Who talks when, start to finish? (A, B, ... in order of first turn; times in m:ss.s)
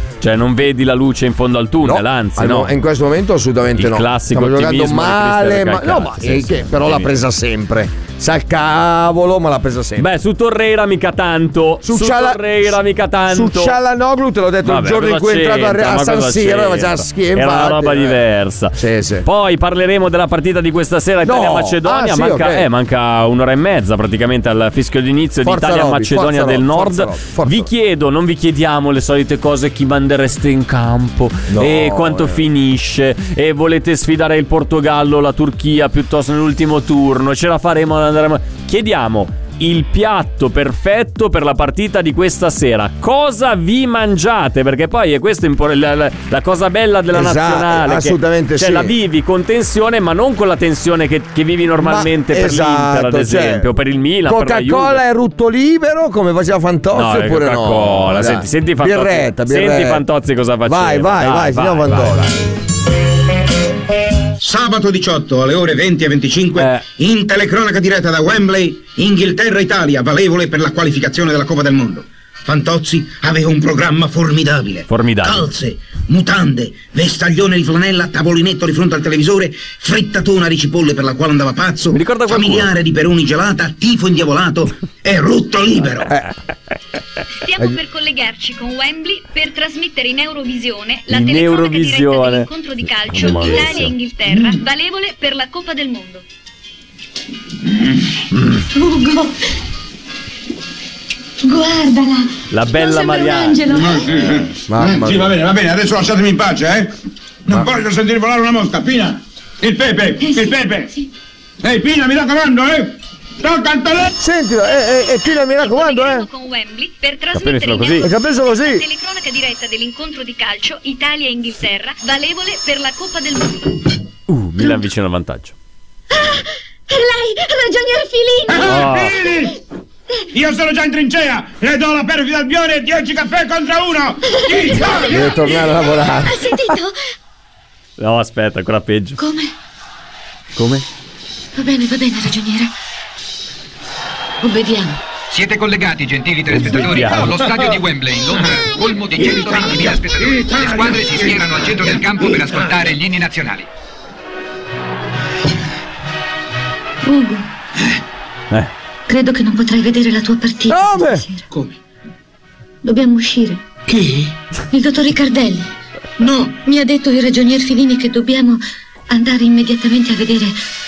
0:00.2-0:02.7 A
0:01.8-0:10.1 B
0:03.8-0:07.1 A
0:10.0-0:13.8 A
0:11.8-0:18.2 B
0:14.6-0:55.0 A
0:18.8-0:19.2 B
0:21.2-0:22.7 B
0:25.4-0:27.7 B
0:31.5-0:32.4 B
0:47.1-0:48.9 B
0:51.8-0:53.7 B
0:54.2-1:00.0 B
0:56.9-1:02.3 A
1:00.6-1:02.4 B
1:04.4-1:26.2 C
1:06.6-1:06.8 A
1:14.9-1:15.5 A
1:21.9-1:22.7 A
1:27.4-1:36.2 D
1:31.1-1:32.5 A
1:33.1-1:33.9 A
1:38.7-1:39.4 E
1:41.4-1:44.1 E
1:42.5-1:43.6 A
1:43.6-1:46.9 F
1:44.7-1:45.3 B
1:47.5-1:50.9 F
1:50.2-1:51.0 E
1:51.6-1:54.1 F
1:54.2-1:56.3 B
1:54.8-2:03.8 D
1:57.4-1:58.1 A
1:58.0-1:58.8 B
2:04.3-2:05.5 A
2:06.1-2:08.9 E
2:08.5-2:09.5 F
2:08.6-2:09.1 A
2:10.3-2:15.4 F
2:14.2-2:16.9 E
2:14.9-2:16.8 B
2:18.0-2:19.2 A
2:19.2-2:19.5 E
2:20.6-2:20.8 A
2:21.5-2:22.7 E
2:24.4-2:25.0 E
2:25.3-2:33.7 G
2:26.5-2:27.4 A
2:29.4-2:30.0 C
2:30.4-2:31.3 F
2:30.5-2:30.9 C
2:32.2-2:32.6 C
2:37.0-2:37.5 E
2:39.1-2:41.4 E
2:40.7-2:41.2 B
2:42.8-2:43.6 E
2:44.7-2:45.6 E
2:46.2-2:50.5 E